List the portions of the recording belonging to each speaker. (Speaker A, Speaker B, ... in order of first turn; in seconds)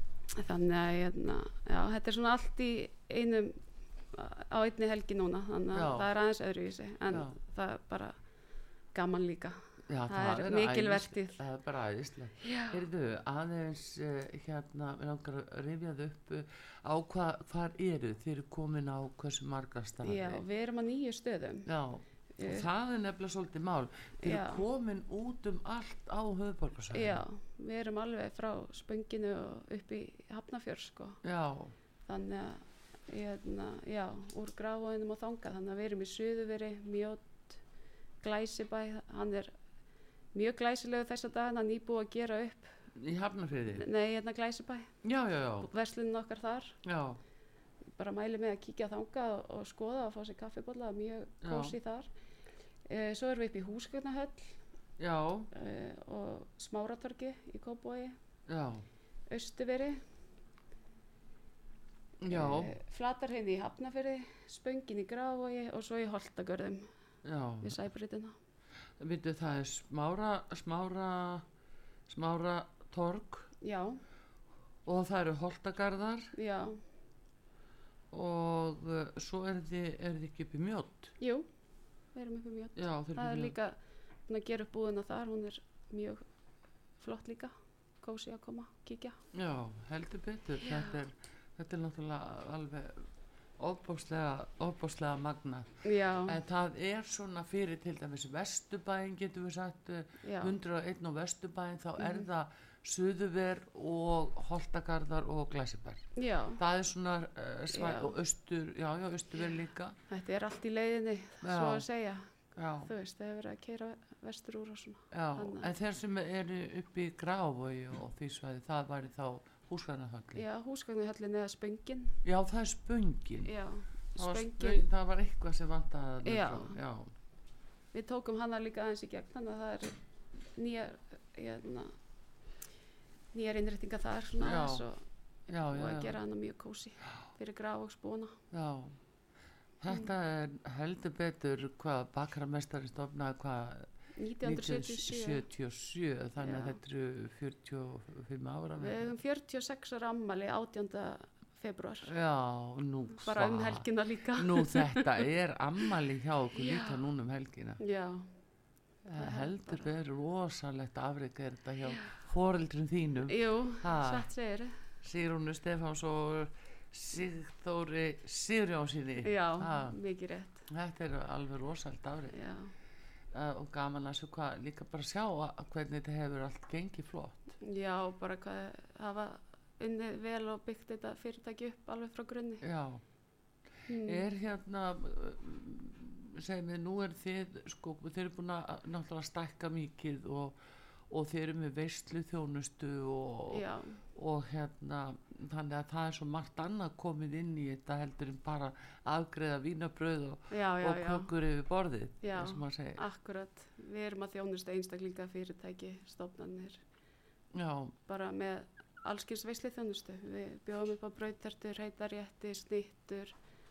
Speaker A: 0.3-3.6, 4.1-8.2, 8.9-9.6, 10.1-11.4, 12.4-12.8, 20.0-21.7, 22.4-22.7, 24.2-24.6, 26.9-31.2, 32.1-37.6, 38.2-39.5, 40.3-42.7, 43.7-44.9, 45.6-46.8, 48.0-52.1, 52.9-54.5, 55.5-58.1, 59.3-60.0, 62.3-66.9, 67.6-68.3, 73.6-74.0, 76.3-76.8, 81.2-81.5, 82.2-83.8, 84.3-86.2, 87.0-89.2, 90.6-91.0, 95.8-96.4, 100.2-100.5, 102.0-102.3, 106.2-106.6, 107.7-108.2, 110.1-112.3, 112.8-115.7, 120.3-122.2, 123.4-124.9, 126.2-126.8, 127.9-129.9, 130.6-131.9, 133.3-135.0, 135.7-138.4, 144.2-145.5, 146.4-146.8, 148.8-152.1, 153.2-155.2, 156.6-157.0, 157.8-158.3, 159.2-159.9, 161.9-162.2, 163.3-164.7, 169.2-170.7, 172.3-172.7, 177.6-182.6, 183.9-184.3, 193.5-194.0, 200.5-201.3, 202.2-206.8, 208.1-213.3
Speaker B: 5.7-6.1, 7.1-7.4, 9.9-20.4, 21.7-27.2, 31.2-31.7, 43.0-43.9, 45.0-45.7, 46.8-47.2, 51.4-51.8, 55.0-55.5, 58.5-58.8, 62.2-62.7, 67.2-67.8, 69.0-71.5, 72.1-73.5, 74.9-76.3, 78.1-81.2, 82.8-83.6, 89.3-93.1, 93.6-95.7, 96.2-106.0, 106.6-110.0, 111.4-111.8, 112.6-112.9, 115.1-120.4, 122.2-123.5, 124.2-127.1, 134.4-134.8, 135.5-136.2, 138.5-139.0, 139.8-143.9, 144.4-149.1, 152.1-157.8, 159.1-164.3, 165.0-170.0, 170.7-172.4, 173.3-177.4, 182.6-183.0, 184.1-190.6, 191.1-203.0, 207.6-207.9